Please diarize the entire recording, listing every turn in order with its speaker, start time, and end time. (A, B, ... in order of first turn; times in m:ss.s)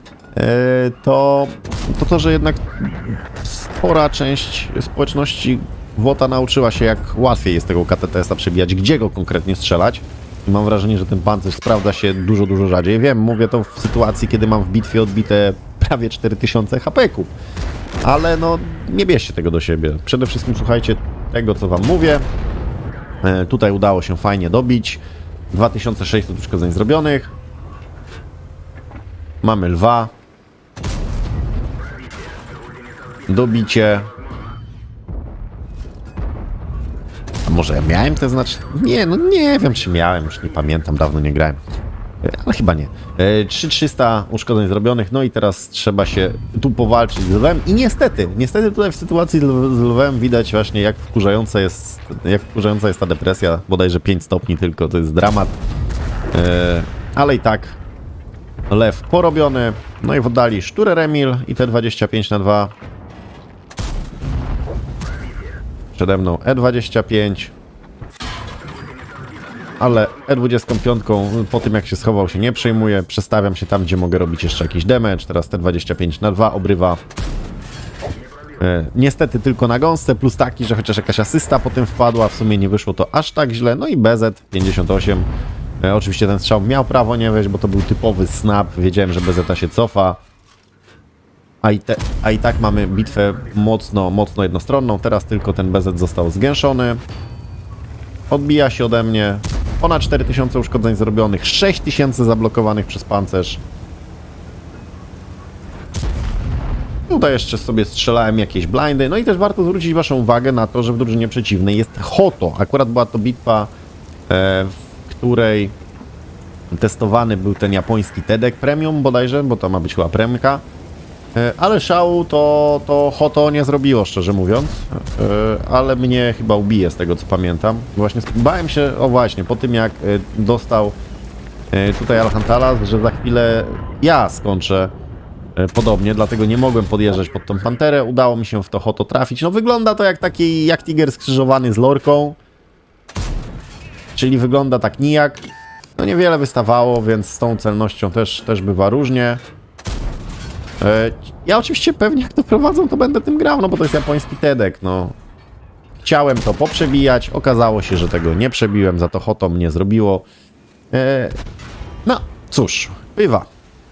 0:00.3-0:17.3 A
0:18.0-0:22.2 A
0:23.2-0:25.0 A
0:25.5-0:27.3 A
0:29.4-0:30.1 A
0:33.3-0:34.1 A
0:37.4-0:41.6 A
0:42.2-0:55.6 A
0:56.3-0:57.8 A
0:58.7-1:02.7 A
1:05.9-1:07.5 A
1:09.8-1:17.0 A
1:18.6-1:25.3 A
1:25.8-1:30.2 A
1:31.6-1:37.0 A
1:38.3-1:43.6 A
1:47.1-1:53.7 A
1:54.3-1:55.7 A
1:56.7-2:00.6 A
2:01.3-2:11.0 A
2:11.7-2:14.9 A
2:15.6-2:22.4 A
2:24.2-2:25.4 A
2:26.0-2:29.4 A
2:30.8-2:35.1 A
2:36.0-2:40.2 A
2:40.9-2:41.4 A
2:42.0-2:43.5 A